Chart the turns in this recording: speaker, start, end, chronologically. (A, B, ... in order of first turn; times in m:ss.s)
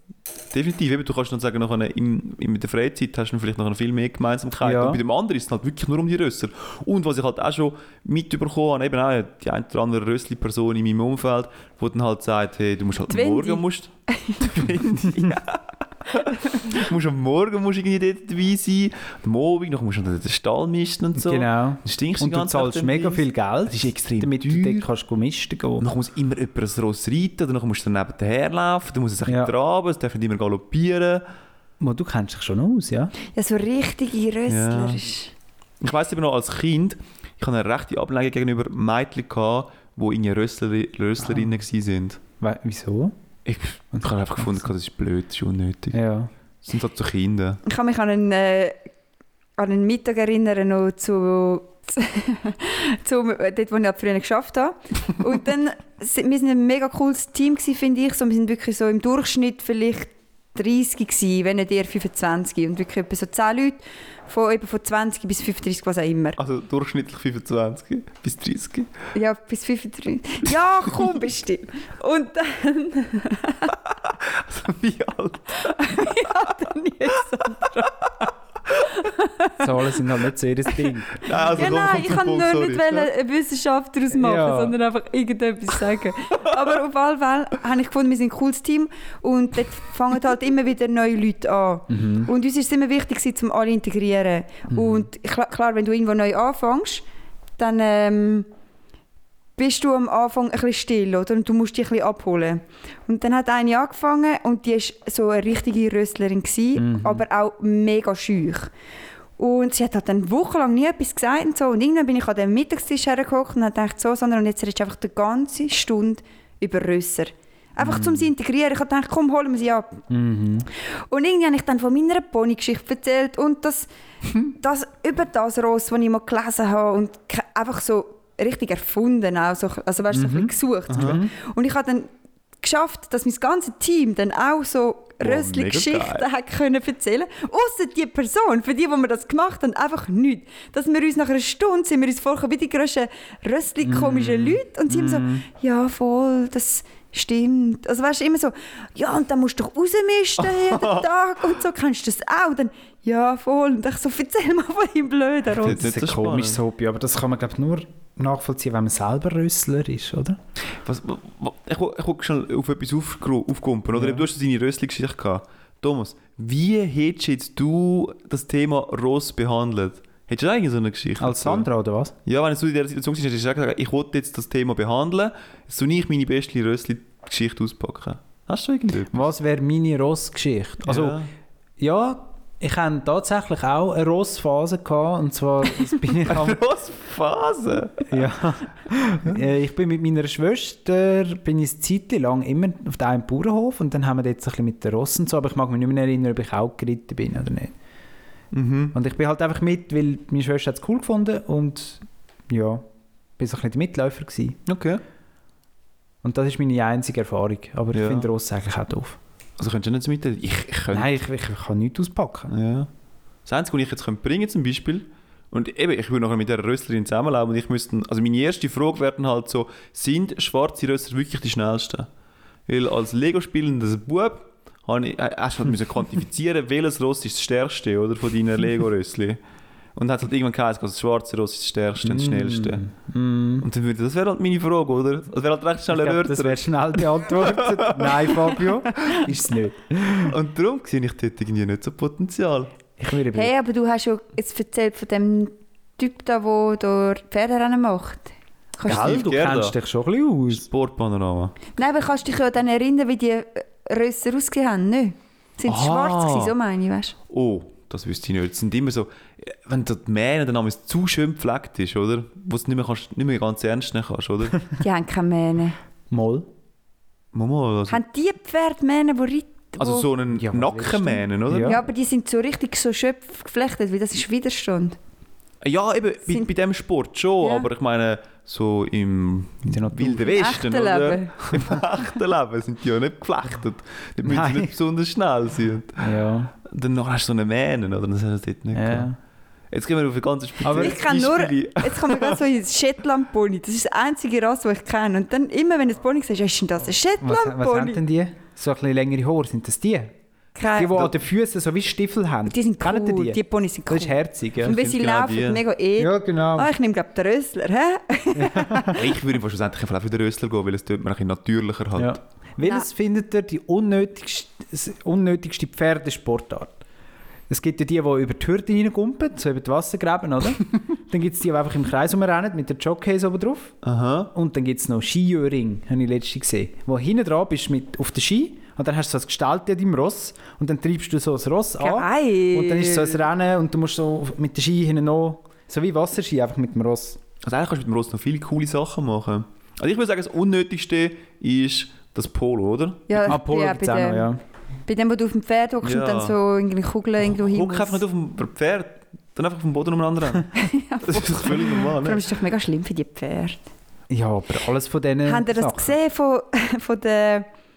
0:00.5-0:24.9 A
0:04.6-0:05.0 B
0:13.1-0:14.7 C
0:21.1-0:25.8 B
0:25.8-0:31.2 A
0:29.2-0:29.5 B
0:31.8-0:33.1 B
0:33.2-0:35.3 C
0:34.5-0:35.0 A
0:35.8-0:42.2 A
0:41.2-0:41.5 B
0:42.4-0:43.1 B
0:43.4-0:46.0 A
0:44.0-0:44.7 B
0:45.9-0:46.3 B
0:46.6-0:47.6 A
0:47.6-0:48.8 C
0:49.6-1:06.4 C
1:06.4-1:08.9 A
1:09.1-1:13.8 C
1:14.2-1:15.7 A
1:15.6-1:18.0 C
1:18.9-1:19.7 C
1:19.6-1:21.2 B
1:21.2-1:23.1 A
1:21.2-1:37.0 C
1:24.1-1:24.8 B
1:31.9-1:32.3 B
1:34.7-1:35.0 B
1:37.6-1:38.5 C
1:39.6-1:48.7 C
1:46.8-1:47.2 B
1:49.4-2:00.0 C
1:57.8-1:58.2 B
2:00.1-2:00.7 B
2:00.8-2:03.9 C
2:04.4-2:12.1 C
2:10.1-2:11.3 B
2:10.9-2:11.2 A
2:12.6-2:35.9 C
2:15.2-2:16.2 A
2:23.8-2:25.4 B
2:30.4-2:31.0 A
2:35.6-2:36.6 A
2:35.6-2:40.4 B
2:40.8-2:51.7 A
2:43.9-2:44.3 B
2:51.2-2:52.1 B
2:52.2-2:59.2 A
2:59.1-3:01.2 B
3:00.8-3:01.3 A
3:01.8-3:06.6 B
3:06.2-3:08.3 A
3:08.1-3:17.7 B
3:18.5-3:19.0 A
3:18.9-3:22.8 B
3:23.4-3:24.6 B
3:24.6-3:25.0 A
3:26.2-3:29.2 B
3:27.9-3:28.3 A
3:29.6-3:31.1 A
3:30.9-3:32.5 B
3:32.5-3:32.9 A
3:33.4-3:42.1 A
3:42.7-3:49.4 A
3:50.0-3:52.8 A
3:52.0-3:53.6 B
3:53.6-3:59.2 A
3:55.9-4:00.4 B
4:00.2-4:02.7 A
4:03.0-4:03.5 B
4:03.3-4:09.0 C
4:08.8-4:10.6 B
4:08.8-4:09.8 A
4:10.5-4:11.6 A
4:11.8-4:17.1 C
4:15.7-4:16.5 A
4:17.3-4:24.7 A
4:24.8-4:25.8 C
4:26.1-4:26.5 B
4:27.3-4:28.0 A
4:27.9-4:30.1 C
4:29.8-4:31.8 A
4:30.3-4:31.8 B
4:31.6-4:35.0 C
4:35.6-4:46.1 A
4:37.4-4:37.7 C
4:39.6-4:40.4 B
4:40.3-4:41.4 C
4:41.5-4:41.8 B
4:44.2-4:44.7 B
4:46.0-4:46.5 B
4:46.6-4:49.1 A
4:48.7-4:49.2 B
4:49.7-4:52.4 A
4:50.6-4:51.0 B
4:50.6-4:58.0 C
4:57.2-5:00.1 B
5:00.6-5:01.1 C
5:00.8-5:04.8 B
5:02.5-5:09.0 C
5:04.6-5:05.6 A
5:06.0-5:06.7 B
5:08.3-5:09.0 B
5:08.9-5:12.2 A
5:12.0-5:16.8 B
5:12.6-5:12.9 C
5:17.5-5:23.7 B
5:23.8-5:24.3 A
5:24.3-5:37.2 B
5:31.8-5:33.2 C
5:37.4-5:43.1 A
5:43.1-5:44.3 C
5:43.2-5:44.4 B
5:44.8-5:48.0 C
5:45.8-5:46.3 A
5:47.2-5:52.3 A
5:50.5-5:53.6 C
5:54.1-5:55.9 B
5:55.2-5:57.5 C